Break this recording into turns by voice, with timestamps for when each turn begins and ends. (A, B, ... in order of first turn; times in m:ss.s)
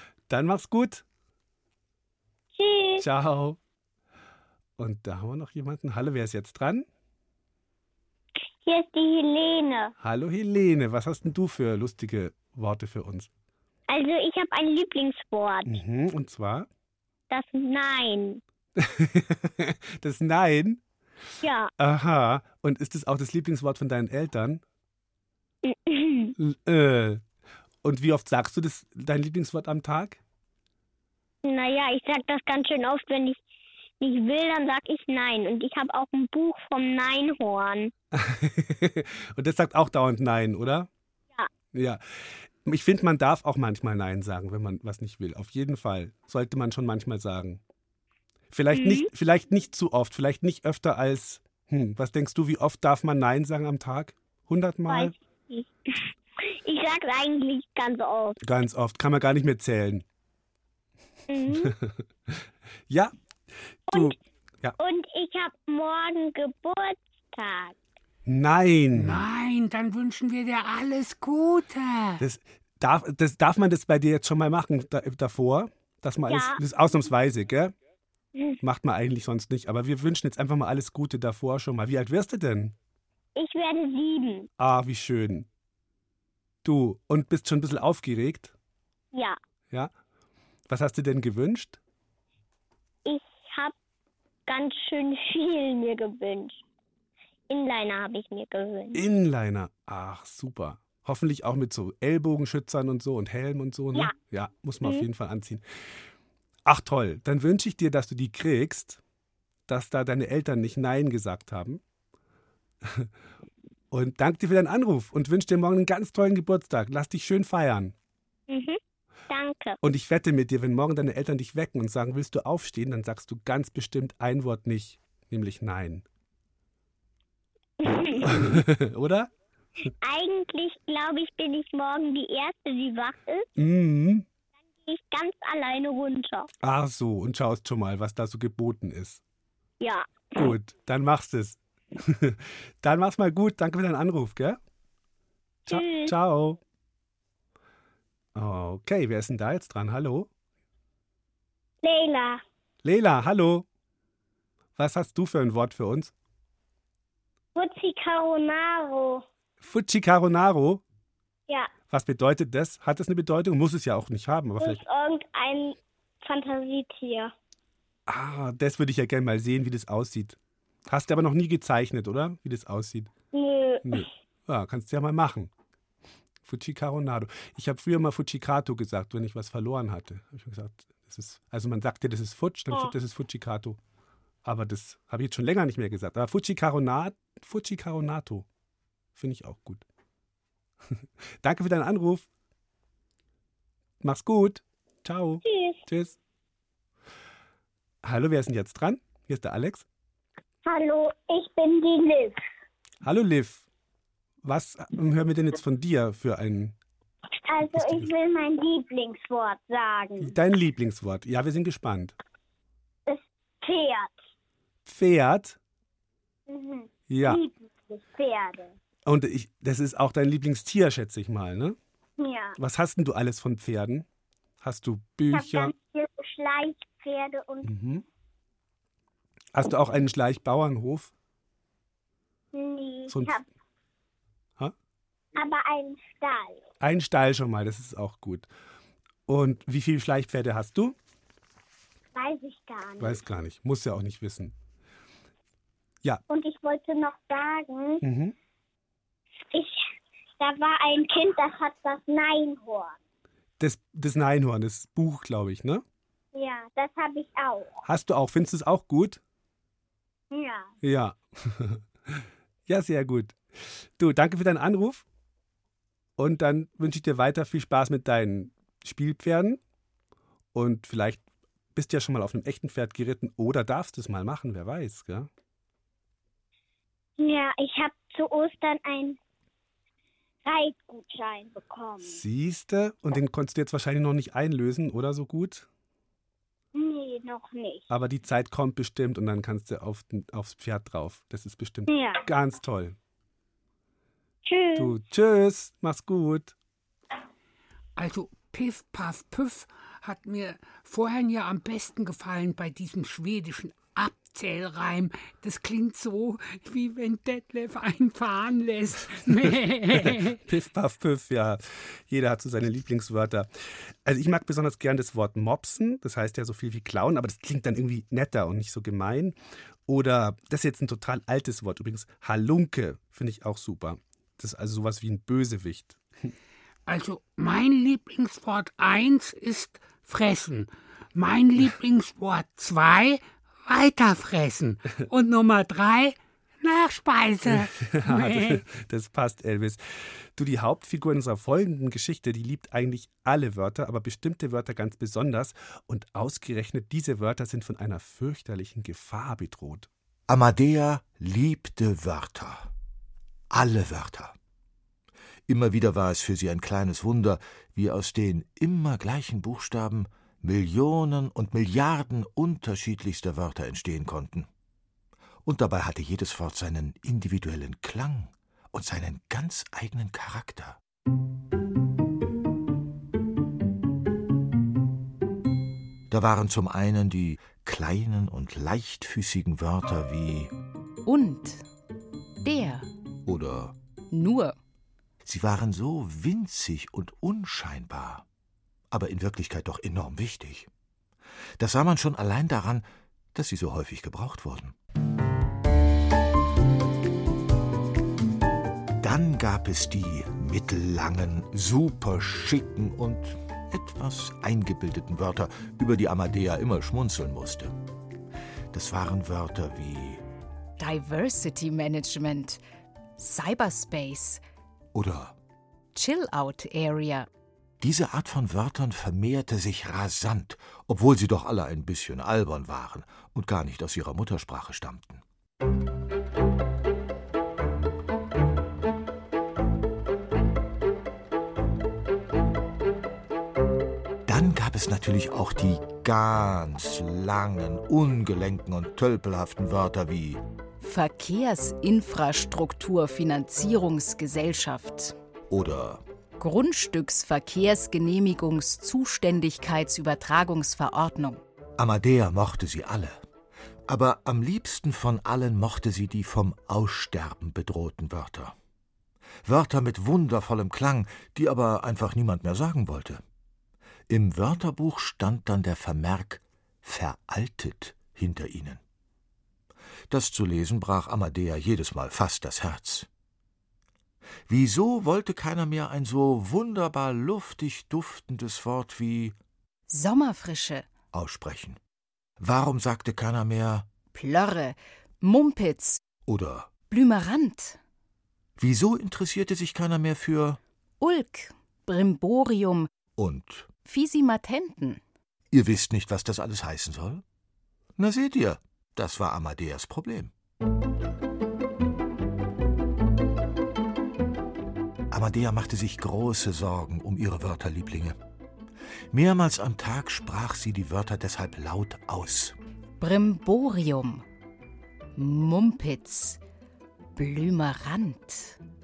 0:00.3-0:01.0 A
0:02.6-0:03.0 B
0:03.0-0:03.6 A
0:04.8-0:06.9 A
0:08.6-0:09.9 B
0:10.0-0:13.3 A
0:13.9-0:15.8 B
0:15.7-0:16.7 A
0:17.3-0:18.4 B
0:18.8-0:20.8 A
0:21.4-0:21.7 B
0:21.8-0:24.6 A
0:25.6-0:26.4 B
0:26.4-0:27.2 A
0:27.8-0:30.2 A
0:31.4-0:33.4 B
0:34.0-0:37.9 B
0:38.1-0:40.9 A
0:41.7-0:42.0 A
0:42.6-0:47.6 A
0:48.5-0:55.1 A
0:48.7-0:49.1 B
0:54.9-0:56.0 B
0:56.6-0:58.4 B
0:58.4-1:00.0 A
1:01.3-1:01.7 B
1:01.6-1:02.0 A
1:03.9-1:04.8 A
1:04.8-1:07.8 B
1:08.3-1:09.2 A
1:08.9-1:12.2 C
1:12.2-1:17.7 A
1:16.3-1:16.6 B
1:18.6-1:22.7 A
1:23.4-1:24.5 B
1:24.6-1:25.5 A
1:26.6-1:28.5 A
1:30.7-1:31.8 A
1:33.0-1:33.7 B
1:34.5-1:36.6 B
1:37.5-1:39.0 B
1:38.9-1:45.6 A
1:46.7-1:49.0 A
1:49.7-1:51.8 A
1:53.9-1:57.9 A
1:58.5-1:58.8 B
1:59.3-1:59.8 B
1:59.8-2:06.0 A
2:07.8-2:08.6 B
2:08.2-2:09.3 A
2:10.0-2:13.5 B
2:13.6-2:14.2 A
2:14.9-2:16.5 B
2:16.6-2:19.2 A
2:19.8-2:20.5 B
2:20.4-2:24.6 A
2:25.7-2:26.1 B
2:25.7-2:26.6 A
2:28.4-2:30.3 A
2:31.8-2:32.4 B
2:32.8-2:33.6 A
2:34.8-2:36.1 A
2:37.6-2:39.2 B
2:39.6-2:40.8 A
2:41.9-2:44.8 A
2:44.6-2:47.3 B
2:48.1-2:53.1 A
2:53.3-2:54.1 B
2:53.8-2:55.5 A
2:56.4-3:03.8 A
3:04.4-3:08.5 A
3:09.2-3:09.8 A
3:11.4-3:12.3 A
3:14.0-3:16.2 A
3:15.4-3:15.8 B
3:18.0-3:19.9 A
3:20.7-3:22.4 B
3:23.0-3:23.7 A
3:24.4-3:26.8 A
3:27.5-3:30.3 B
3:27.7-3:28.1 A
3:30.2-3:32.1 A
3:33.1-3:34.2 B
3:34.9-3:35.6 A
3:36.5-3:38.7 B
3:37.1-3:37.4 A
3:39.1-3:41.8 A
3:42.2-3:42.6 B
3:42.6-3:44.1 A
3:44.6-3:45.7 A
3:45.3-3:47.7 B
3:47.6-3:48.0 A
3:49.6-3:51.1 A
3:52.5-3:53.4 B
3:53.1-3:53.4 A
3:55.4-3:56.6 B
3:56.8-3:58.5 A
3:59.3-4:01.0 A
4:02.2-4:03.2 B
4:03.0-4:04.5 A
4:06.3-4:08.0 B
4:08.0-4:08.3 A
4:09.5-4:09.9 B
4:10.4-4:13.0 B
4:13.6-4:15.8 A
4:16.3-4:17.8 B
4:17.8-4:19.2 A
4:20.3-4:20.7 B
4:20.8-4:25.0 A
4:26.2-4:29.6 A
4:30.5-4:31.2 A
4:31.8-4:35.3 A
4:37.2-4:39.2 B
4:40.4-4:42.2 B
4:42.0-4:45.7 A
4:46.8-4:47.8 B
4:47.9-4:53.0 A
4:51.9-4:52.2 B
4:54.5-4:54.9 B
4:54.8-4:56.5 A
4:58.0-5:10.4 C
5:10.0-5:13.5 A
5:14.0-5:19.4 A
5:19.9-5:26.0 A
5:26.9-5:38.6 C
5:37.5-5:49.9 A
5:50.3-5:52.7 D
5:53.5-5:54.4 D
5:55.5-6:04.5 D
6:05.4-6:10.8 D
6:16.1-6:20.5 D
6:21.1-6:21.6 E
6:22.4-6:22.9 E
6:23.3-6:23.8 D
6:24.1-6:24.6 E
6:25.2-6:28.2 D
6:28.9-6:30.7 D
6:31.6-6:34.8 D
6:39.0-6:47.8 D
6:48.7-6:50.2 D
6:50.8-6:52.6 E
6:53.2-6:54.4 E
6:54.9-6:55.4 D
6:56.0-6:57.3 E
6:57.8-7:05.2 D
7:14.3-7:20.4 D
7:20.8-7:25.2 E
7:25.5-7:26.0 D
7:26.4-7:31.4 E
7:31.8-7:33.2 D
7:33.9-7:38.6 D
7:39.4-7:43.2 D
7:44.1-7:48.8 D
7:50.1-7:53.1 D
7:54.5-7:59.4 D
7:59.9-8:00.9 E
8:01.1-8:01.8 D
8:02.4-8:03.9 D
8:04.1-8:06.0 E
8:06.3-8:06.7 D
8:06.9-8:07.8 E
8:08.6-8:10.6 D
8:11.0-8:12.9 E
8:13.2-8:13.7 D
8:13.8-8:15.0 E
8:15.5-8:17.2 D
8:18.0-8:20.3 D
8:25.1-8:28.2 D
8:29.1-8:32.6 D
8:33.0-8:34.2 E
8:35.2-8:36.4 E
8:37.2-8:38.6 E